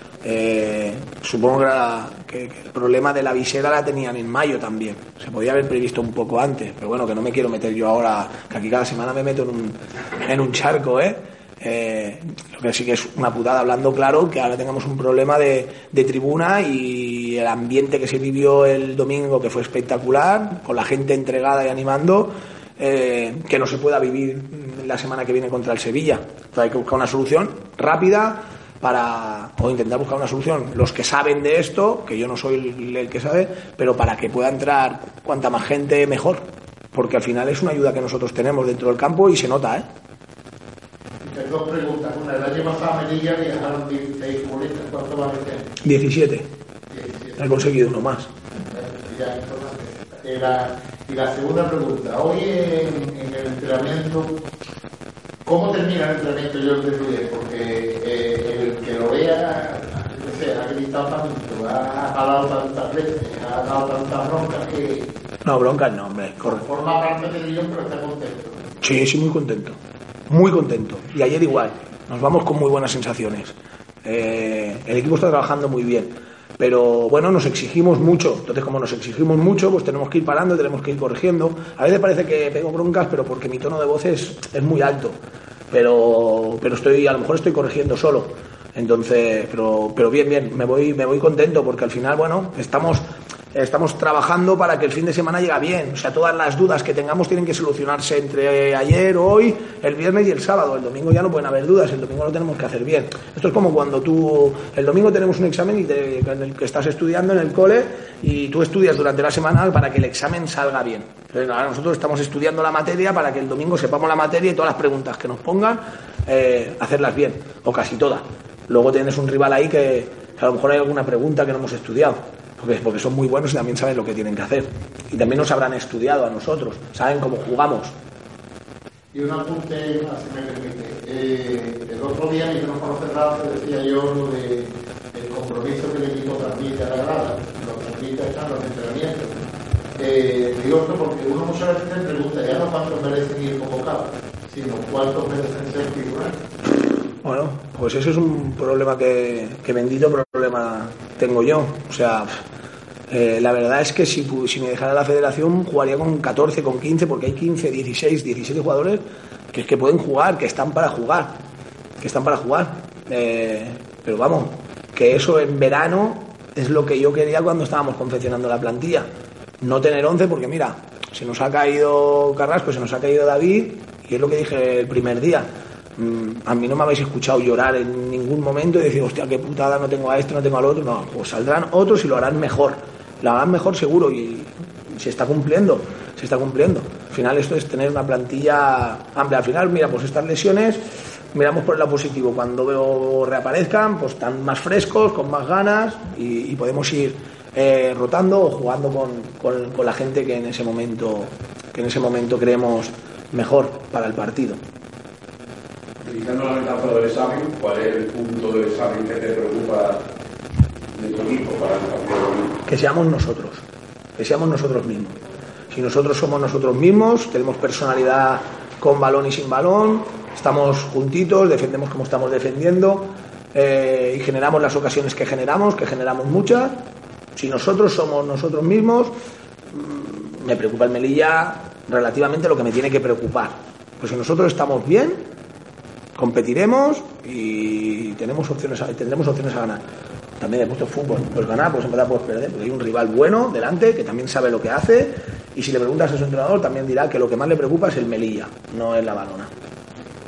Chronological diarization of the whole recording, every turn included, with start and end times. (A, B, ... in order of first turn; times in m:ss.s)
0:00.2-0:39.8 A
0:41.2-0:45.7 B
0:45.8-0:46.5 A
0:46.9-0:47.4 B
0:47.4-0:48.3 A
0:48.6-0:54.3 B
0:55.4-1:05.1 B
1:05.4-1:06.6 A
1:06.4-1:08.6 B
1:08.8-1:09.8 A
1:10.3-1:25.2 A
1:25.7-2:07.9 A
2:09.1-2:19.3 B
2:20.0-2:26.4 B
2:27.2-2:32.3 A
2:33.1-2:41.4 A
2:42.0-2:49.1 A
2:49.6-3:10.8 A
3:11.3-3:24.6 A
3:26.0-3:30.0 C
3:30.9-3:32.6 C
3:32.7-3:33.6 A
3:34.2-3:35.2 A
3:35.7-3:46.8 A
3:47.4-3:49.1 A
3:49.7-3:55.2 A
3:56.2-3:59.8 A
4:00.4-4:09.5 A